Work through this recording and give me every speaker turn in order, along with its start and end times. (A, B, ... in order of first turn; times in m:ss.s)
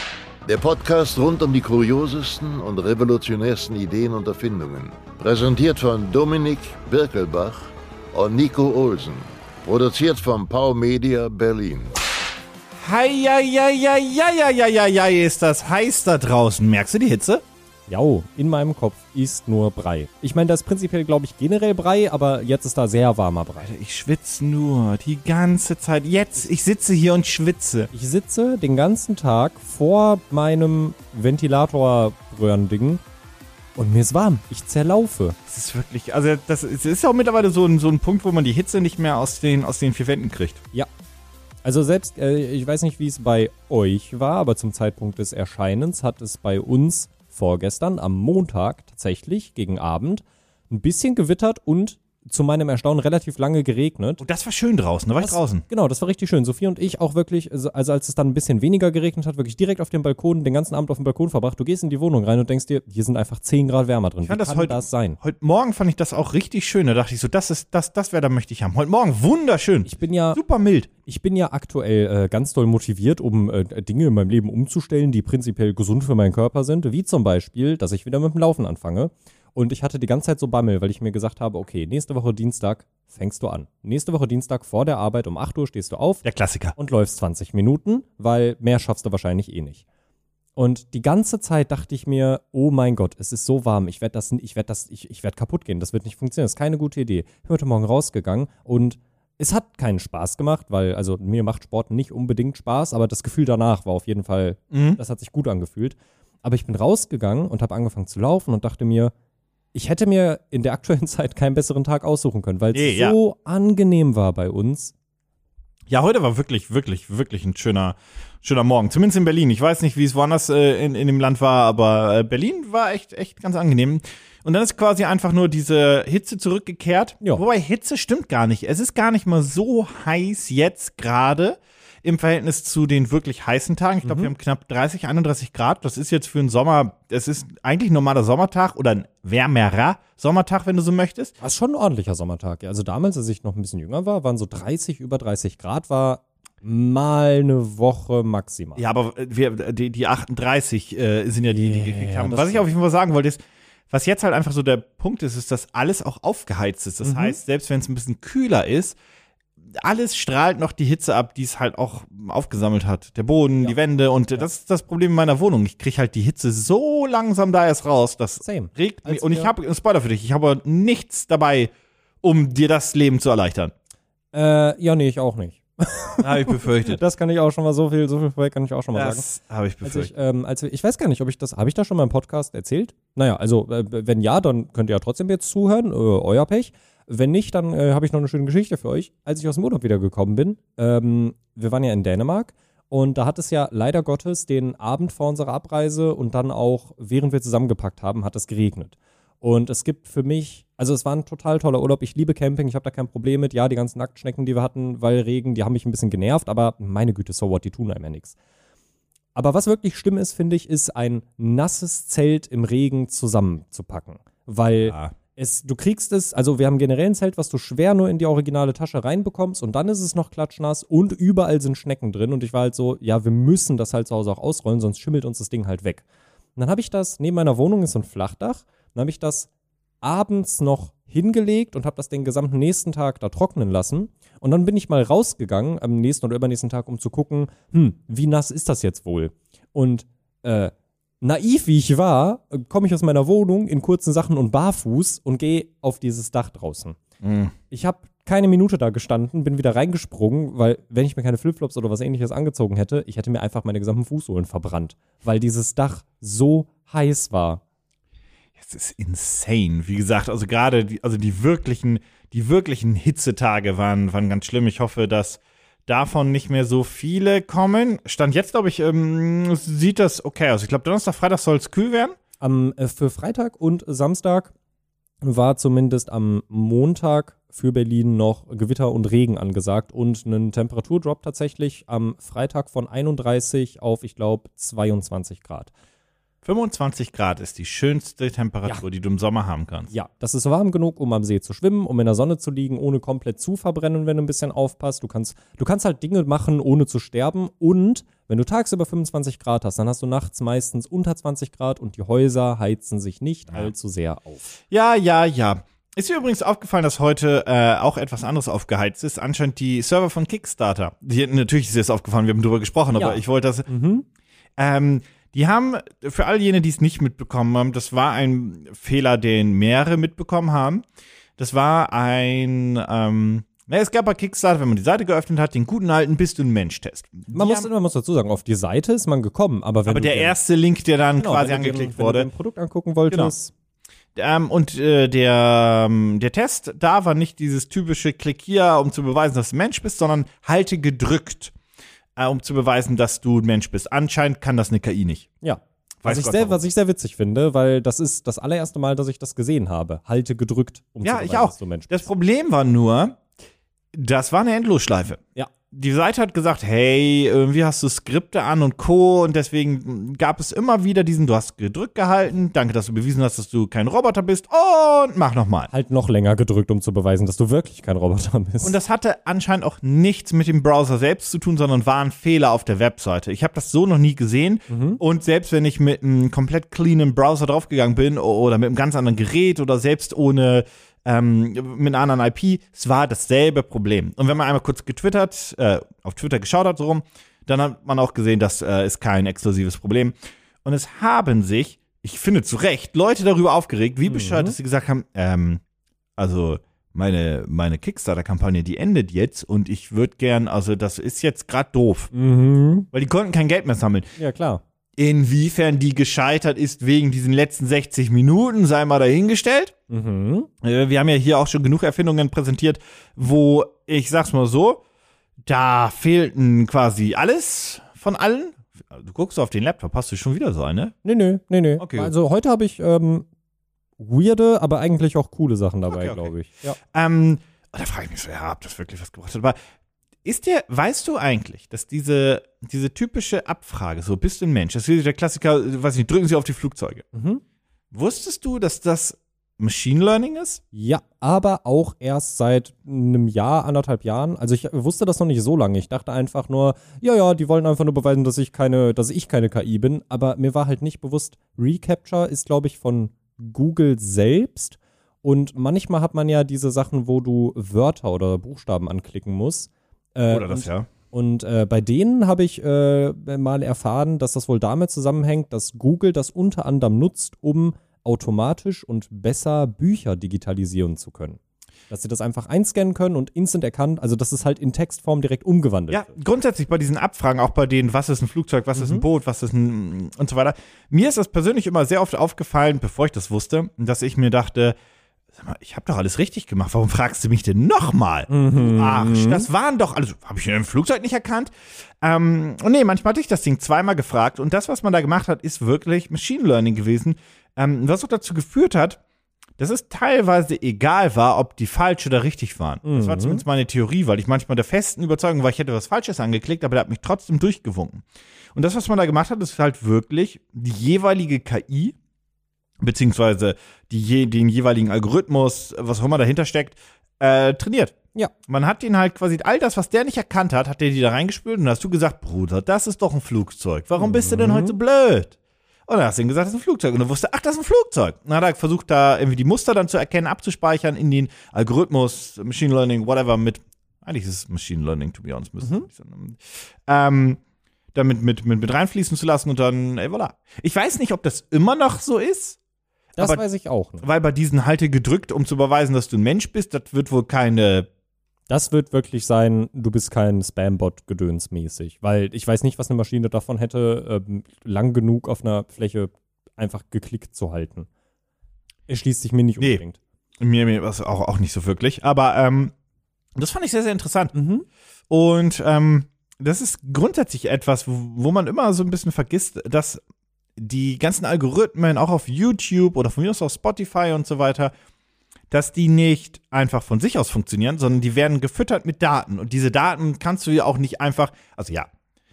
0:00.4-0:12.0 A
0:12.8-0:17.4 B
0:17.9-0:23.7 C
0:23.6-0:27.9 B
0:27.9-0:33.0 C
0:33.8-0:35.4 C
0:35.5-0:40.6 B
0:41.6-0:54.2 C
0:54.2-0:55.6 B
0:55.2-1:05.2 C
1:04.2-1:10.9 B
1:09.9-1:10.4 C
1:11.0-1:26.2 C
1:26.2-1:26.8 B
1:26.8-1:29.8 C
1:30.6-1:49.1 C
1:44.7-1:45.0 B
1:49.8-1:54.9 C
1:52.7-1:53.2 B
1:55.9-2:21.3 B
2:14.0-2:14.3 C
2:21.4-2:28.8 C
2:28.8-2:39.0 B
2:31.5-2:32.7 C
2:37.0-2:37.4 C
2:39.7-2:51.7 B
2:48.4-2:49.5 C
2:52.2-2:53.7 B
2:54.3-2:59.2 C
2:56.2-2:57.0 B
2:58.9-3:00.1 B
2:59.8-3:28.3 C
3:29.3-3:46.0 C
3:34.8-3:35.1 B
3:46.6-3:49.5 C
3:50.0-4:07.0 C
4:07.2-4:07.5 B
4:07.7-4:17.6 C
4:18.6-4:32.2 B
4:32.4-4:34.5 C
4:35.2-4:45.7 C
4:46.4-4:49.9 B
4:49.9-5:04.4 C
5:04.7-5:13.7 B
5:13.0-5:14.0 C
5:14.6-5:20.8 B
5:21.4-5:27.7 B
5:27.3-5:30.4 C
5:29.9-5:32.3 B
5:31.2-5:33.5 C
5:34.2-5:41.5 B
5:42.2-5:45.3 B
5:45.4-5:52.1 C
5:46.0-5:46.6 B
5:51.0-5:53.2 B
5:53.9-6:05.7 B
6:05.7-6:08.8 C
6:08.6-6:35.6 B
6:14.7-6:15.0 C
6:34.1-6:34.6 C
6:36.2-6:42.1 B
6:42.1-6:42.9 C
6:42.9-6:44.1 B
6:44.2-6:44.6 C
6:45.0-6:49.7 B
6:49.9-6:50.5 C
6:50.6-6:54.8 B
6:55.5-7:00.9 B
7:01.0-7:03.2 C
7:01.8-7:02.1 B
7:04.0-7:06.8 C
7:05.9-7:06.3 B
7:06.9-7:09.6 B
7:10.2-7:17.1 B
7:17.1-7:17.4 C
7:17.9-7:20.6 B
7:20.7-7:51.4 C
7:40.3-7:40.9 B
7:51.9-7:56.1 C
7:55.9-8:04.8 B
7:58.8-7:59.1 C
8:05.3-8:19.0 B
8:08.3-8:09.5 C
8:19.6-8:32.0 B
8:22.8-8:23.4 C
8:32.8-8:38.0 B
8:38.5-8:45.4 B
8:44.0-8:44.8 C
8:45.9-8:57.4 B
8:55.6-8:55.9 C
8:57.9-9:02.6 B
9:03.2-9:04.0 C
9:03.2-9:03.4 B
9:04.0-9:07.9 B
9:08.5-9:17.9 C
9:18.9-9:20.0 C
9:20.4-9:22.7 B
9:23.4-9:24.3 B
9:24.3-9:24.6 C
9:25.1-9:30.0 B
9:30.6-9:34.7 B
9:35.5-9:41.9 B